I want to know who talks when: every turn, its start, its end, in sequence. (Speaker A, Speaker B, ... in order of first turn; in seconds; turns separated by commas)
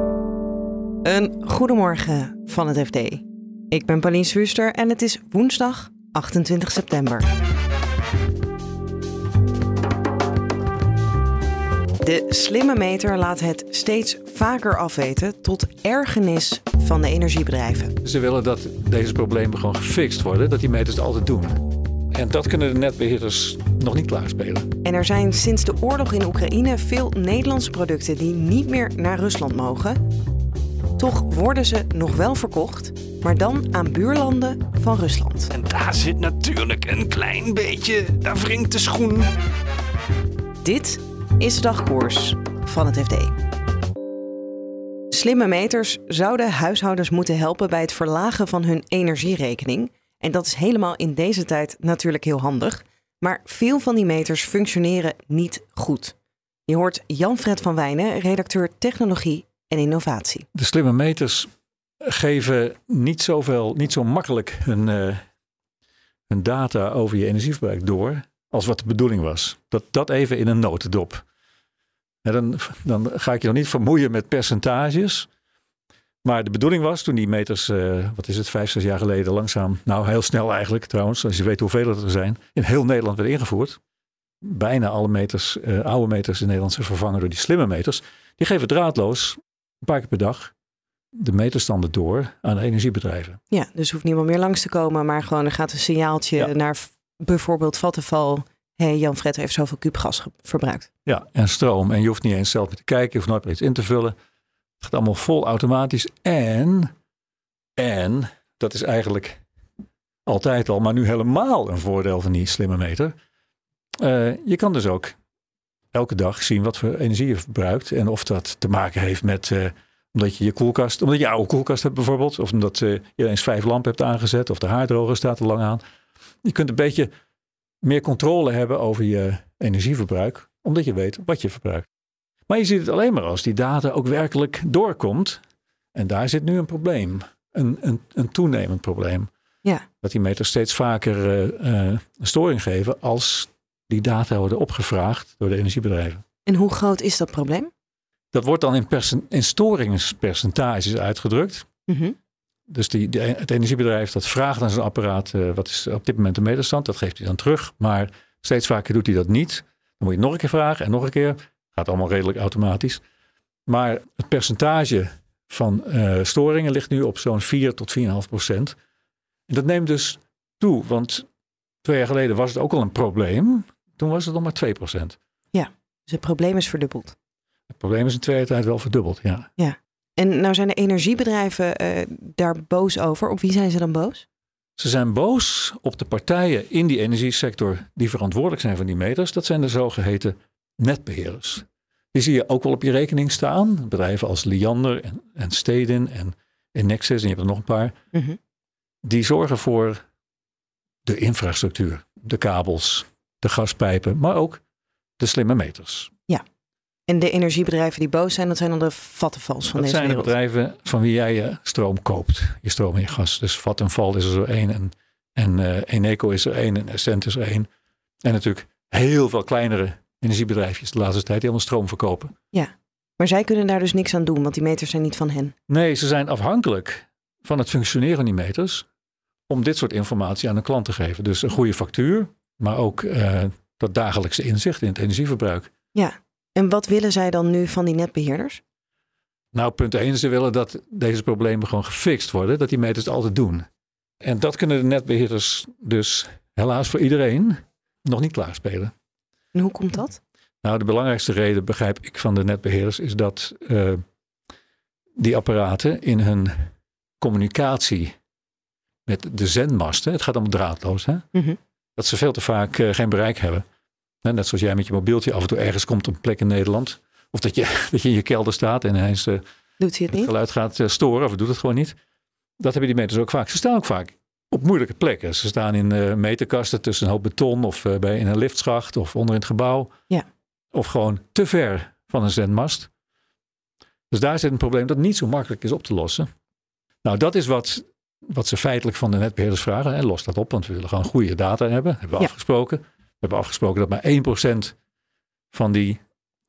Speaker A: 1.0-7.2, Speaker A: 12.0-17.9, Speaker B: 18.0-21.6, Speaker B: 22.1-24.7, Speaker A: 24.8-30.0, Speaker A: 31.0-35.5, Speaker C: 35.5-39.3, Speaker A: 40.6-43.3, Speaker A: 45.1-56.1, Speaker A: 56.7-60.5, Speaker B: 60.5-61.5, Speaker B: 62.0-65.2, Speaker B: 66.3-71.2, Speaker B: 72.2-75.3, Speaker B: 76.2-83.8, Speaker B: 84.4-90.5, Speaker B: 91.2-93.4, Speaker A: 93.5-100.9, Speaker B: 101.0-104.1, Speaker B: 104.8-106.9, Speaker B: 107.8-109.4, Speaker B: 110.2-113.1, Speaker B: 114.0-115.1, Speaker B: 115.9-125.8, Speaker B: 126.4-127.1, Speaker B: 127.8-131.8, Speaker B: 132.5-135.4, Speaker B: 135.9-139.3, Speaker B: 140.0-146.2, Speaker A: 146.4-147.7, Speaker B: 148.3-151.7, Speaker A: 151.9-152.1, Speaker B: 152.7-163.0, Speaker B: 163.7-168.7, Speaker B: 169.5-171.2, Speaker B: 171.8-175.2, Speaker A: 175.5-177.1, Speaker B: 177.7-179.5, Speaker A: 179.6-184.2, Speaker B: 184.8-197.9, Speaker B: 199.0-200.0, Speaker B: 201.1-204.6, Speaker B: 205.2-206.1, Speaker A: 207.1-210.3, Speaker B: 209.8-217.7, Speaker B: 218.2-222.3, Speaker A: 222.5-225.5, Speaker B: 225.7-228.8, Speaker B: 229.5-235.7, Speaker A: 235.9-238.6, Speaker B: 239.5-243.7, Speaker B: 244.2-248.9, Speaker A: 249.5-250.2, Speaker B: 250.6-254.0, Speaker B: 255.2-256.7, Speaker B: 257.2-258.1, Speaker B: 259.1-261.2, Speaker B: 262.0-263.6, Speaker B: 264.2-269.4, Speaker A: 269.8-270.3, Speaker B: 270.1-271.9, Speaker B: 272.6-279.9, Speaker B: 280.7-282.9, Speaker B: 284.1-286.3, Speaker B: 287.0-294.7, Speaker B: 295.5-296.0